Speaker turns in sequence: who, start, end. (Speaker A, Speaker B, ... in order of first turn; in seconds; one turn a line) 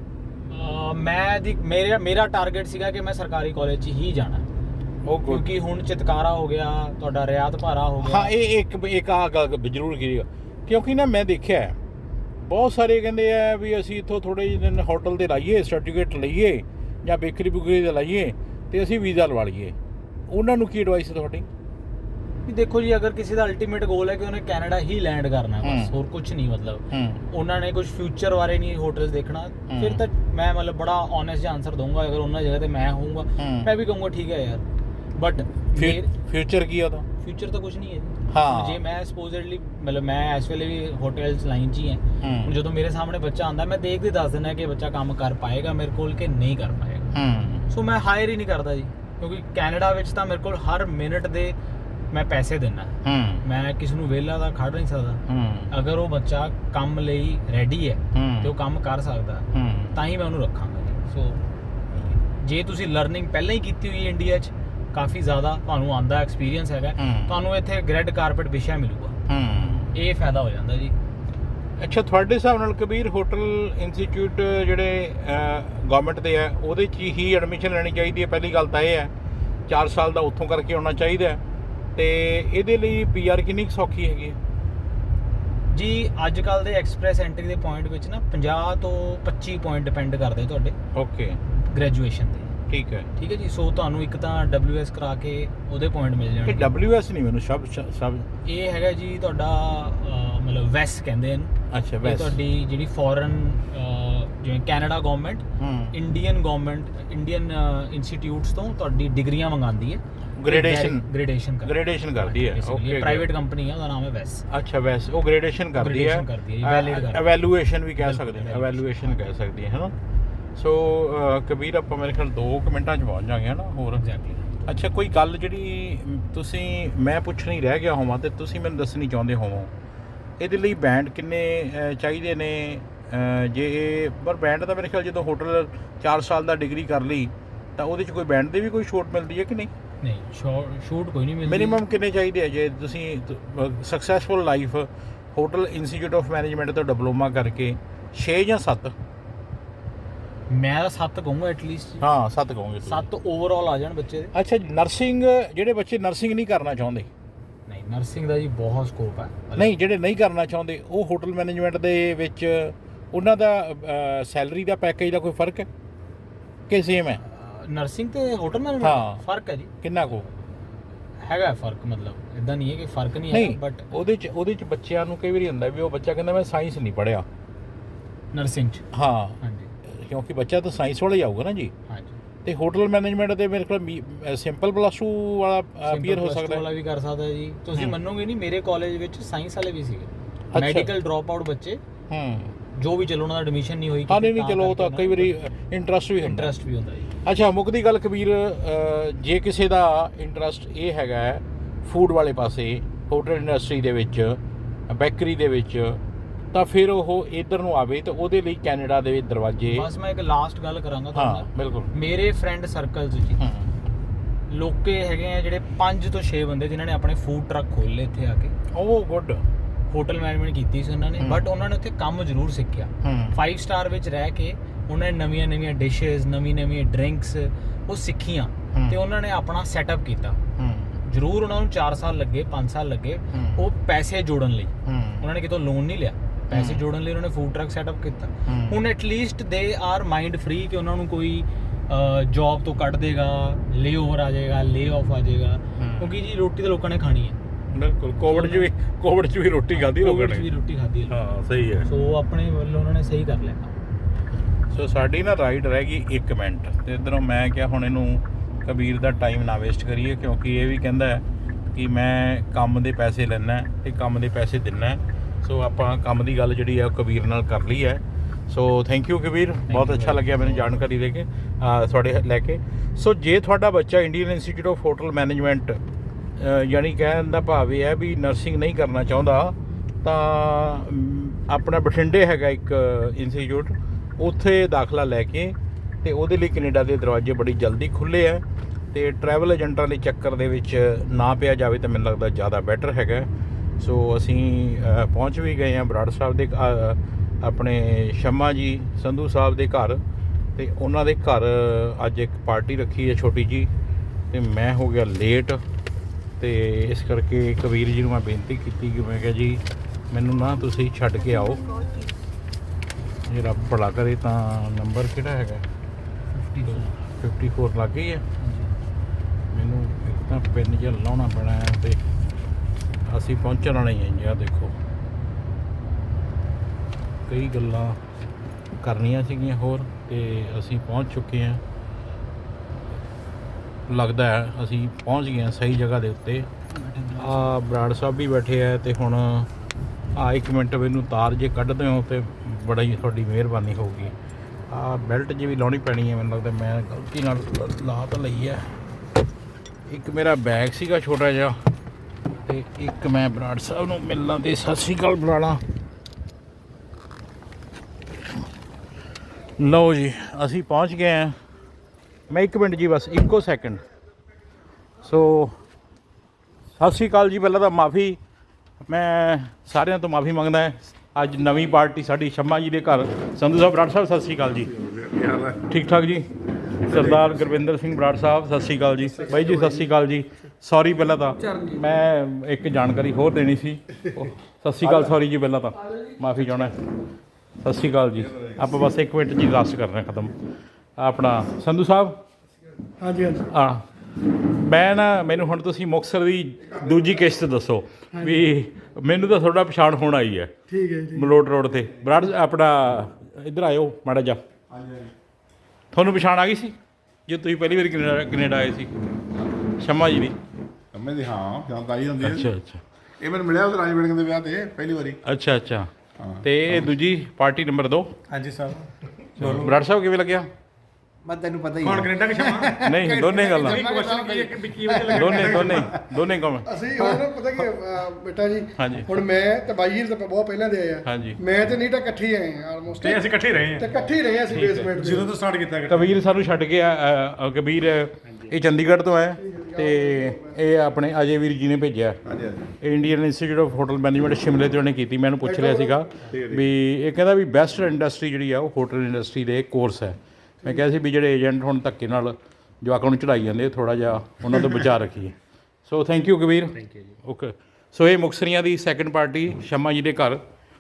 Speaker A: 0.5-4.5
Speaker B: 5.0-5.4
Speaker A: 5.3-8.3
Speaker B: 8.0-11.8
Speaker B: 12.4-19.7
Speaker B: 20.3-21.5
Speaker A: 22.4-34.6
Speaker B: 25.6-25.9
Speaker B: 26.9-27.2
Speaker B: 29.7-30.0
Speaker B: 33.4-33.7
Speaker A: 35.2-36.1
Speaker B: 35.7-37.1
Speaker A: 37.2-47.1
Speaker B: 38.3-38.8
Speaker B: 42.2-42.5
Speaker B: 47.1-47.6
Speaker A: 47.7-51.5
Speaker A: 52.1-61.4
Speaker B: 53.0-53.4
Speaker B: 55.3-55.7
Speaker B: 58.1-58.5
Speaker B: 59.5-60.0
Speaker A: 62.2-69.2
Speaker B: 67.0-67.3
Speaker B: 69.3-69.9
Speaker A: 69.9-71.0
Speaker B: 71.8-79.1
Speaker B: 79.7-81.4
Speaker B: 82.0-84.4
Speaker A: 85.7-90.8
Speaker B: 90.9-91.4
Speaker A: 91.6-92.5
Speaker B: 92.7-93.1
Speaker A: 93.2-96.7
Speaker B: 96.5-98.3
Speaker A: 98.4-114.4
Speaker B: 101.7-102.4
Speaker B: 105.6-106.0
Speaker B: 110.4-111.1
Speaker B: 111.6-113.3
Speaker B: 114.5-119.9
Speaker A: 115.8-117.3
Speaker A: 118.0-119.3
Speaker B: 120.5-124.0
Speaker A: 124.0-124.6
Speaker B: 124.7-129.7
Speaker B: 130.4-139.7
Speaker A: 140.0-141.8
Speaker B: 141.4-148.9
Speaker A: 150.5-152.0
Speaker B: 152.0-153.1
Speaker A: 152.8-154.3
Speaker B: 154.3-157.1
Speaker A: 157.7-159.7
Speaker B: 159.6-165.7
Speaker B: 166.7-167.2
Speaker A: 167.2-169.7
Speaker B: 168.8-169.2
Speaker B: 169.8-170.3
Speaker A: 171.2-173.9
Speaker B: 173.3-177.2
Speaker A: 178.3-178.8
Speaker B: 178.9-181.7
Speaker A: 179.4-179.7
Speaker A: 181.9-182.2
Speaker B: 182.4-186.6
Speaker A: 185.8-191.8
Speaker B: 190.5-190.9
Speaker B: 192.1-192.5
Speaker A: 192.7-195.3
Speaker B: 194.1-196.5
Speaker A: 196.2-197.1
Speaker B: 197.2-206.0
Speaker B: 206.5-209.9
Speaker A: 209.7-213.4
Speaker B: 211.1-211.9
Speaker B: 213.4-213.7
Speaker A: 214.5-218.5
Speaker B: 218.7-219.4
Speaker A: 219.9-230.4
Speaker B: 221.2-221.5
Speaker B: 223.0-223.4
Speaker B: 230.6-231.0
Speaker A: 231.1-247.4
Speaker B: 233.3-233.6
Speaker B: 234.8-235.2
Speaker B: 236.5-236.8
Speaker B: 238.4-238.8
Speaker B: 245.8-246.1
Speaker B: 247.7-250.5
Speaker A: 248.2-248.7
Speaker A: 249.7-251.2
Speaker B: 251.1-251.9
Speaker A: 251.8-253.7
Speaker B: 254.7-275.8
Speaker A: 269.7-270.8
Speaker B: 276.4-300.0
Speaker B: 300.6-303.7
Speaker B: 304.3-305.6
Speaker B: 306.4-311.9
Speaker B: 313.2-315.6
Speaker A: 316.3-317.1
Speaker B: 316.7-318.2
Speaker A: 318.4-318.7
Speaker B: 319.5-322.0
Speaker B: 323.1-324.7
Speaker B: 327.3-328.0
Speaker B: 328.8-331.6
Speaker B: 333.9-336.5
Speaker A: 336.7-337.5
Speaker B: 337.2-339.5
Speaker B: 340.1-344.1
Speaker B: 344.7-348.7
Speaker B: 349.9-351.6
Speaker B: 352.4-355.6
Speaker B: 359.6-361.3
Speaker B: 362.3-363.8
Speaker B: 365.0-365.6
Speaker B: 366.8-368.2
Speaker B: 368.8-374.7
Speaker C: 374.8-375.6
Speaker B: 375.7-376.3
Speaker B: 376.8-386.8
Speaker C: 376.9-377.6
Speaker B: 387.6-390.4
Speaker B: 391.0-392.2
Speaker D: 393.0-393.5
Speaker B: 393.5-393.8
Speaker B: 394.5-400.5
Speaker D: 400.7-401.3
Speaker B: 401.1-404.4
Speaker C: 404.7-405.1
Speaker B: 405.9-406.7
Speaker B: 407.3-408.9
Speaker B: 409.8-410.4
Speaker C: 410.9-412.5
Speaker B: 412.2-412.8
Speaker C: 413.2-415.2
Speaker B: 415.2-418.1
Speaker E: 418.3-419.8
Speaker B: 419.4-420.5
Speaker F: 421.2-425.3
Speaker E: 421.8-426.0
Speaker B: 422.8-423.9
Speaker D: 423.6-425.6
Speaker B: 425.1-426.8
Speaker D: 426.7-433.2
Speaker B: 428.8-429.1
Speaker B: 431.0-431.4
Speaker E: 432.9-436.2
Speaker D: 433.8-435.4
Speaker B: 435.9-442.2
Speaker D: 439.4-440.5
Speaker C: 442.3-442.7
Speaker B: 442.8-455.3
Speaker C: 445.5-446.7
Speaker B: 455.9-460.4